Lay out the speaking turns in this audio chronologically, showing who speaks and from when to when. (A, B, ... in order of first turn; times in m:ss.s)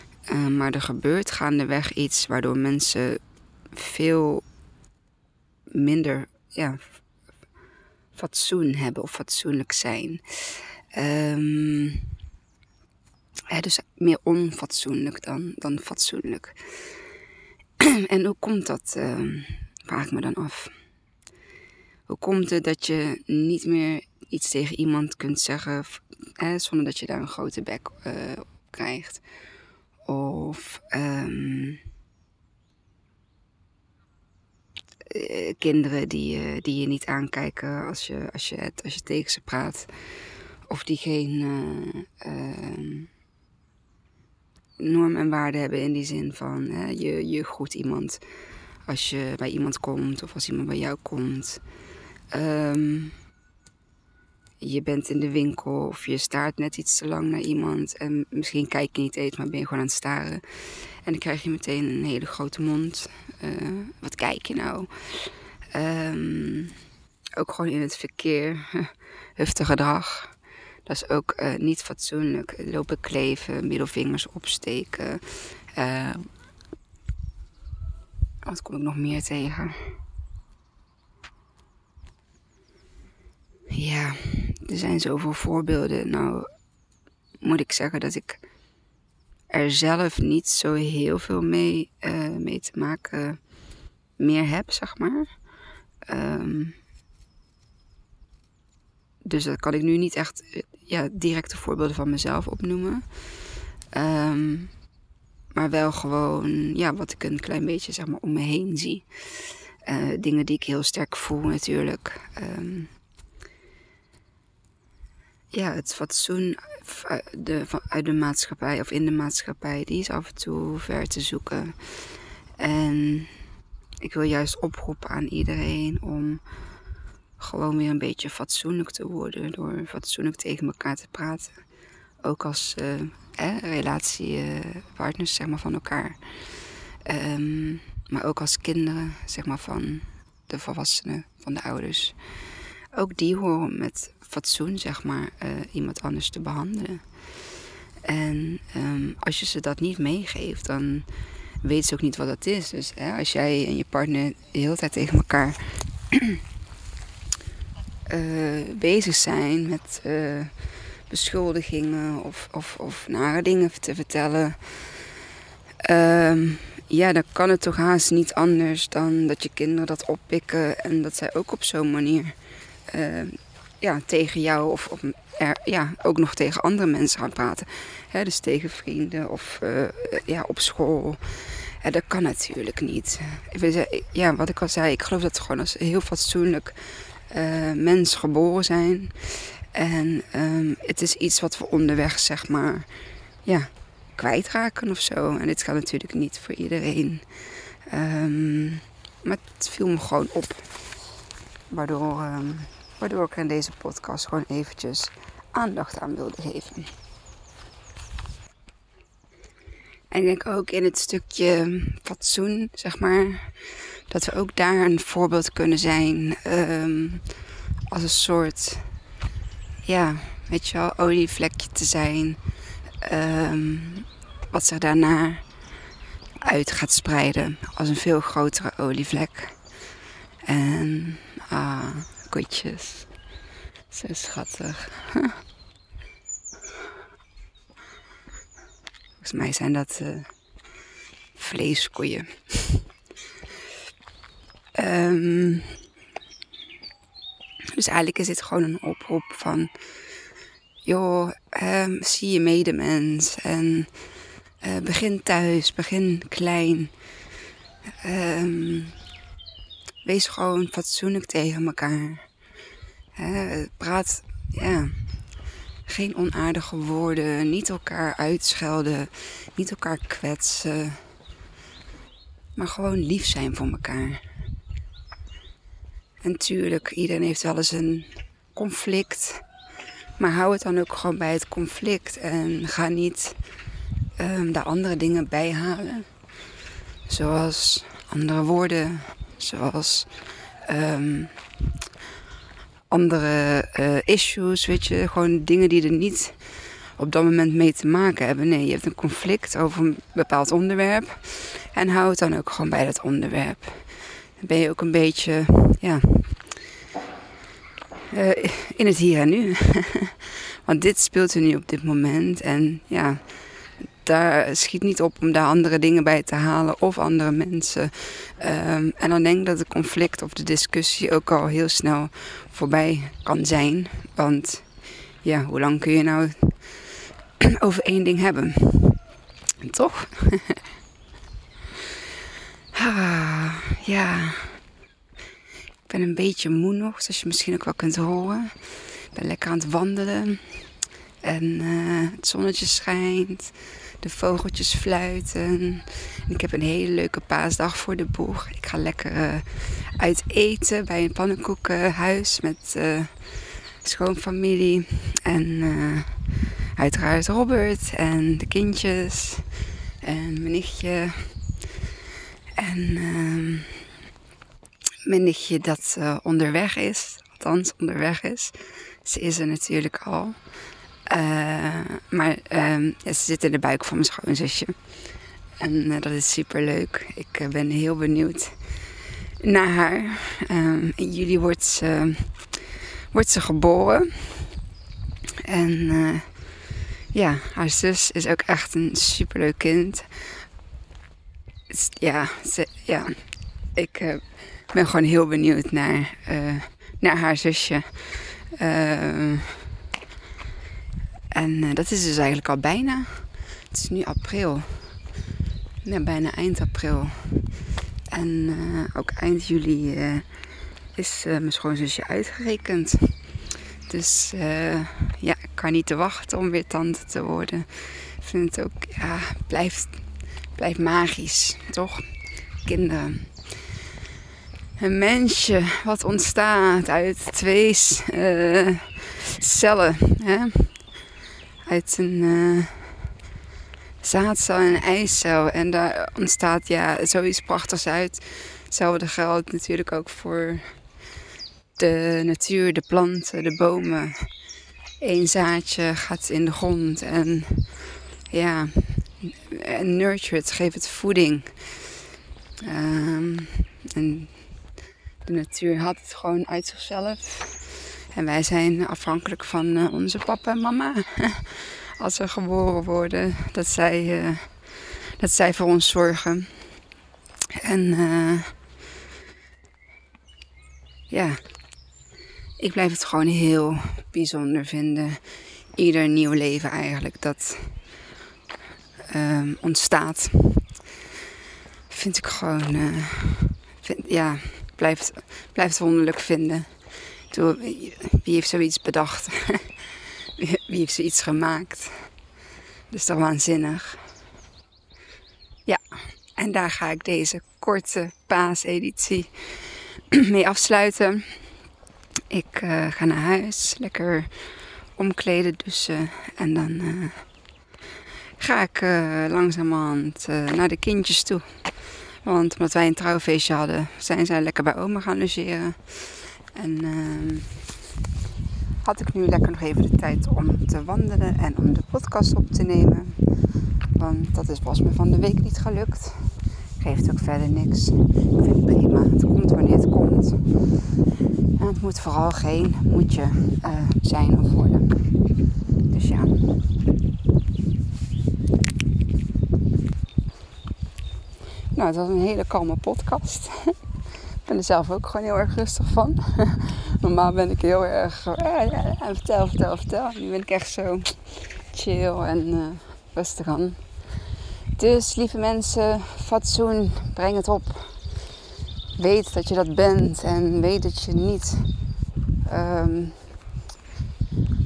0:00.3-0:04.4 A
0:05.7-0:07.0 A
0:08.1-0:12.1 A
0:13.5-0:17.0 A
0:17.8-0:20.7 A
0:22.1-0:29.3 A
0:30.0-0:31.8 A
0:35.1-0:43.1 A
0:44.8-0:48.2 A
0:48.8-0:51.6 A
0:52.3-0:53.2 A
0:54.6-1:06.7 A
1:07.4-1:16.3 A
1:18.4-1:20.0 A
1:23.7-1:26.6 A
1:27.4-1:28.5 A
1:29.5-1:33.5 A
1:34.2-1:35.4 A
1:36.0-1:36.8 A
1:39.2-1:43.3 A
1:43.9-1:44.8 A
1:45.5-1:52.9 A
1:55.5-2:03.4 A
2:04.0-2:06.4 A
2:07.4-2:11.6 A
2:12.2-2:22.4 A
2:22.9-2:27.4 A
2:28.0-2:31.1 A
2:31.6-2:36.4 A
2:38.1-2:45.1 A
2:45.8-2:52.4 A
2:52.9-3:20.8 A
3:21.7-3:26.9 A
3:30.1-3:37.3 A
3:37.9-3:38.9 A
3:39.8-3:42.4 A
3:43.0-3:45.6 A
3:46.4-3:49.9 A
3:50.4-3:53.1 A
3:53.9-3:55.3 A
3:59.2-4:00.4 A
4:01.3-4:02.9 A
4:04.7-4:05.8 A
4:07.7-4:09.7 A
4:10.8-4:17.0 A
4:18.0-4:19.0 A
4:20.0-4:22.5 A
4:23.2-4:31.1 A
4:32.5-4:34.2 A
4:36.2-4:39.4 A
4:40.2-4:43.4 A
4:44.2-4:46.2 A
4:47.0-4:51.5 A
4:52.9-5:06.6 A
5:08.1-5:29.1 A
5:29.6-5:30.6 A
5:32.7-5:34.6 A
5:35.9-5:40.7 A
5:41.2-6:01.7 A
6:02.6-6:03.9 A
6:05.0-6:10.5 A
6:11.1-6:15.0 A
6:15.6-6:18.8 A
6:19.4-6:24.6 A
6:25.4-6:30.1 A
6:31.7-6:39.6 A
6:41.3-6:45.0 A
6:45.8-6:50.4 A
6:50.9-7:03.7 A
7:04.8-7:11.0 A
7:11.6-7:13.2 A
7:14.0-7:21.0 A
7:21.8-7:24.4 A
7:25.0-7:31.9 A
7:32.6-7:46.8 A
7:47.6-7:48.6 A
7:51.1-7:51.5 A
7:52.6-7:58.0 A
7:59.1-8:00.8 A
8:01.9-8:12.2 A
8:12.9-8:14.1 A
8:15.6-8:21.6 A
8:22.3-8:27.4 A
8:28.4-8:37.6 A
8:38.8-8:43.2 A
8:43.9-8:50.8 A
8:51.6-8:55.0 A
8:55.9-8:56.6 A
9:01.7-9:03.8 A
9:04.4-9:14.0 A
9:14.8-9:18.2 A
9:19.0-9:21.8 A
9:22.4-9:23.4 A